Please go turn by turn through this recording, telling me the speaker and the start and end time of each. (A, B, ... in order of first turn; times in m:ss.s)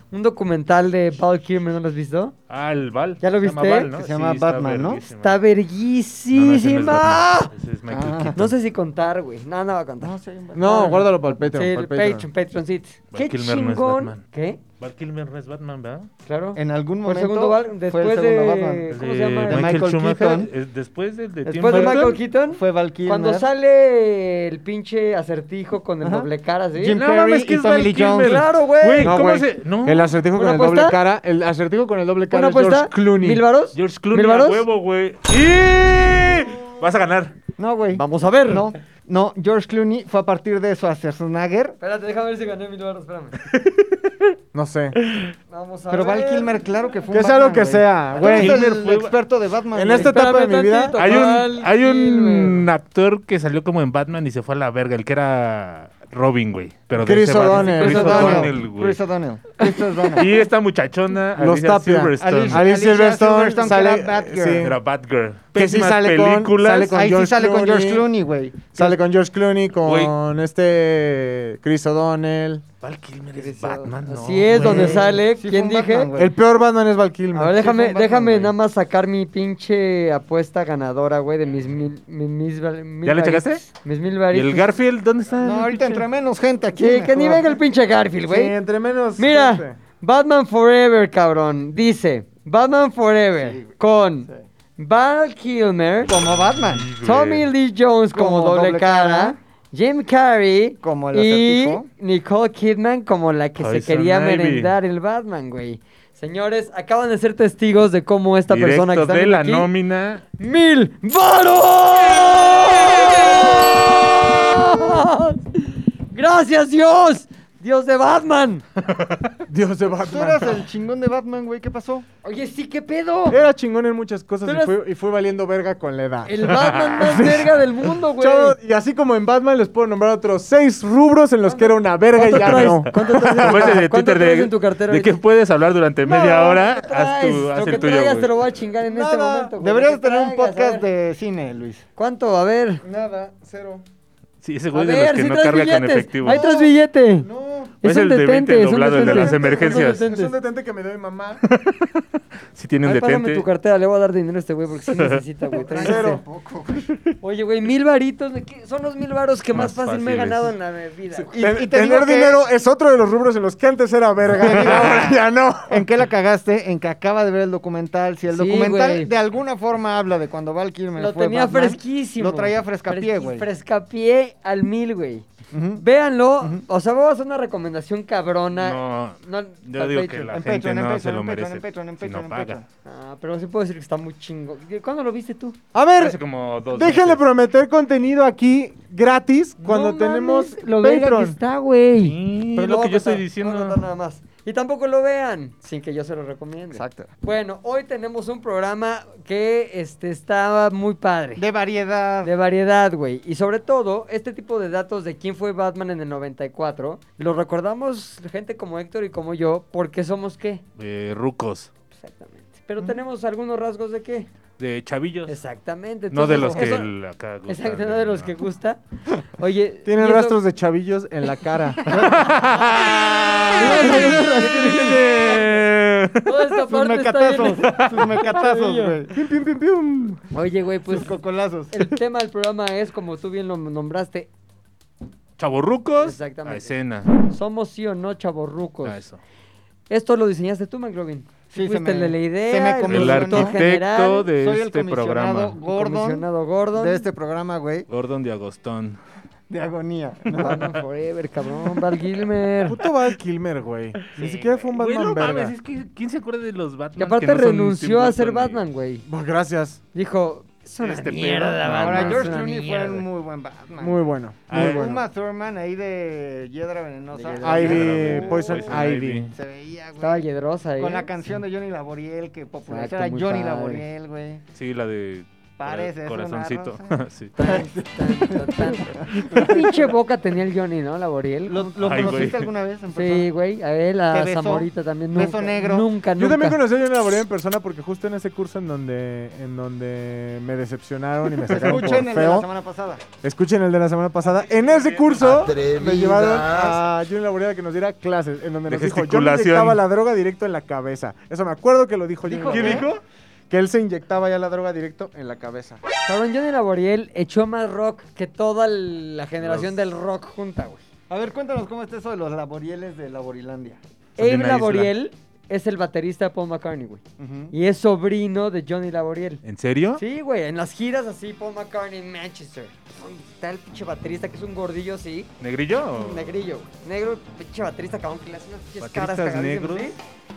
0:00.1-0:02.3 A
0:02.5-0:05.4 B
0:03.2-0:03.9 A
0:03.9-0:05.0 C
0:05.1-0:07.5 A
0:06.3-0:08.5 B
0:07.9-0:08.4 C
0:08.3-0:14.6 A
0:10.0-0:11.1 C
0:10.5-0:12.3 D
0:13.1-0:14.2 B
0:14.8-0:16.1 B
0:16.2-0:19.8 A
0:16.6-0:18.9 C
0:18.9-0:22.2 B
0:19.5-0:20.5 C
0:21.4-0:27.0 A
0:21.6-0:23.5 C
0:26.0-0:28.5 C
0:27.0-0:30.1 B
0:28.2-0:29.2 A
0:29.0-0:33.4 D
0:30.3-0:31.0 A
0:32.3-0:34.6 A
0:33.7-0:37.3 B
0:37.6-0:41.8 C
0:37.9-0:38.7 A
0:41.8-0:43.4 A
0:43.5-0:44.1 B
0:44.5-0:45.0 D
0:45.5-0:46.6 A
0:45.9-0:50.2 C
0:47.1-0:48.6 D
0:48.2-0:49.1 B
0:49.7-0:51.0 D
0:49.9-0:52.6 A
0:51.0-0:59.0 B
0:56.9-0:58.5 D
0:57.5-0:58.4 A
0:57.8-1:00.4 C
1:00.1-1:02.7 B
1:01.4-1:04.8 D
1:02.2-1:04.7 C
1:04.6-1:06.9 B
1:05.5-1:08.0 D
1:06.8-1:09.0 C
1:08.7-1:12.6 D
1:09.8-1:10.1 B
1:12.8-1:15.2 B
1:13.3-1:16.1 A
1:14.6-1:16.3 C
1:16.1-1:17.6 D
1:17.3-1:24.7 A
1:17.5-1:18.5 C
1:23.0-1:23.6 B
1:24.3-1:26.0 B
1:25.4-1:27.6 C
1:26.7-1:28.6 A
1:28.3-1:29.8 D
1:29.2-1:36.1 A
1:33.4-1:33.7 C
1:36.1-1:37.5 B
1:36.1-1:36.9 C
1:37.0-1:49.7 A
1:38.1-1:39.4 C
1:40.8-1:41.9 C
1:43.6-1:44.7 B
1:48.5-1:50.2 B
1:50.4-1:58.6 A
1:59.5-2:00.6 D
2:00.0-2:02.1 C
2:02.2-2:03.4 A
2:03.3-2:07.5 D
2:04.4-2:04.7 A
2:06.2-2:08.6 A
2:06.6-2:07.4 B
2:08.2-2:13.8 D
2:11.4-2:15.2 A
2:12.4-2:18.3 B
2:16.0-2:20.8 A
2:18.8-2:19.5 D
2:19.6-2:21.8 C
2:22.0-2:22.8 A
2:22.8-2:23.8 D
2:24.4-2:26.4 B
2:24.7-2:27.3 A
2:26.2-2:27.8 D
2:27.8-2:30.4 A
2:27.8-2:30.0 B
2:29.0-2:31.4 D
2:31.4-2:33.4 B
2:32.8-2:36.2 A
2:34.9-2:35.2 B
2:35.7-2:36.9 C
2:35.7-2:36.2 D
2:37.2-2:41.3 A
2:39.5-2:40.5 B
2:41.3-2:42.4 C
2:41.4-2:45.8 D
2:44.3-2:53.5 C
2:48.3-2:49.1 A
2:51.0-2:55.2 A
2:55.5-2:55.8 C
2:55.8-3:00.3 A
2:58.6-3:02.6 B
3:00.3-3:02.6 C
3:02.8-3:05.6 A
3:05.7-3:06.2 D
3:06.0-3:07.2 B
3:06.7-3:11.4 D
3:09.6-3:21.4 A
3:12.0-3:13.8 B
3:16.7-3:17.1 C
3:21.4-3:22.3 C
3:22.2-3:30.6 A
3:30.8-3:31.7 B
3:32.0-3:34.3 A
3:34.6-3:35.4 B
3:35.3-3:36.9 A
3:36.1-3:38.3 B
3:37.5-3:40.4 A
3:39.8-3:42.1 D
3:41.8-3:42.3 A
3:41.9-3:44.0 B
3:43.5-3:45.5 D
3:43.5-3:45.6 A
3:44.8-3:46.4 B
3:46.2-3:49.0 A
3:46.7-3:49.2 C
3:47.4-3:48.2 B
3:49.1-3:50.2 D
3:50.3-3:51.1 A
3:50.9-3:51.7 C
3:51.7-3:54.3 A
3:55.4-3:57.1 B
3:56.0-3:59.0 A
3:58.8-3:59.2 B
3:59.9-4:04.3 A
4:01.5-4:03.6 C
4:02.9-4:05.6 B
4:04.4-4:07.9 C
4:05.6-4:07.0 A
4:07.9-4:09.0 B
4:09.5-4:10.7 C
4:10.3-4:12.8 A
4:12.6-4:15.5 D
4:14.1-4:18.6 B
4:17.0-4:19.0 A
4:19.1-4:19.8 D
4:19.9-4:23.1 A
4:20.8-4:22.4 B
4:21.6-4:30.2 C
4:23.8-4:25.0 D
4:24.5-4:24.9 B
4:27.1-4:27.7 A
4:27.4-4:29.3 D
4:27.5-4:29.3 B
4:30.0-4:31.1 A
4:30.8-4:34.4 C
4:32.7-4:33.8 A
4:34.5-4:37.3 B
4:35.6-4:39.9 C
4:37.4-4:42.3 A
4:41.5-4:43.3 C
4:41.8-4:42.5 B
4:42.9-4:46.6 A
4:44.1-4:45.9 C
4:46.2-4:52.5 D
4:51.4-4:53.0 C
4:53.2-5:02.9 D
4:54.6-4:55.5 B
4:55.3-4:56.8 C
4:58.7-4:59.8 B
5:02.2-5:03.0 C
5:02.5-5:02.8 B
5:03.5-5:05.8 D
5:06.0-5:10.8 A
5:09.4-5:09.7 B
5:11.1-5:13.8 C
5:14.2-5:17.0 A
5:14.2-5:14.9 B
5:17.2-5:17.5 C
5:17.5-5:19.4 A
5:19.4-5:20.0 B
5:20.0-5:25.3 A
5:25.4-5:26.3 B
5:25.9-5:30.0 A
5:28.8-5:29.9 B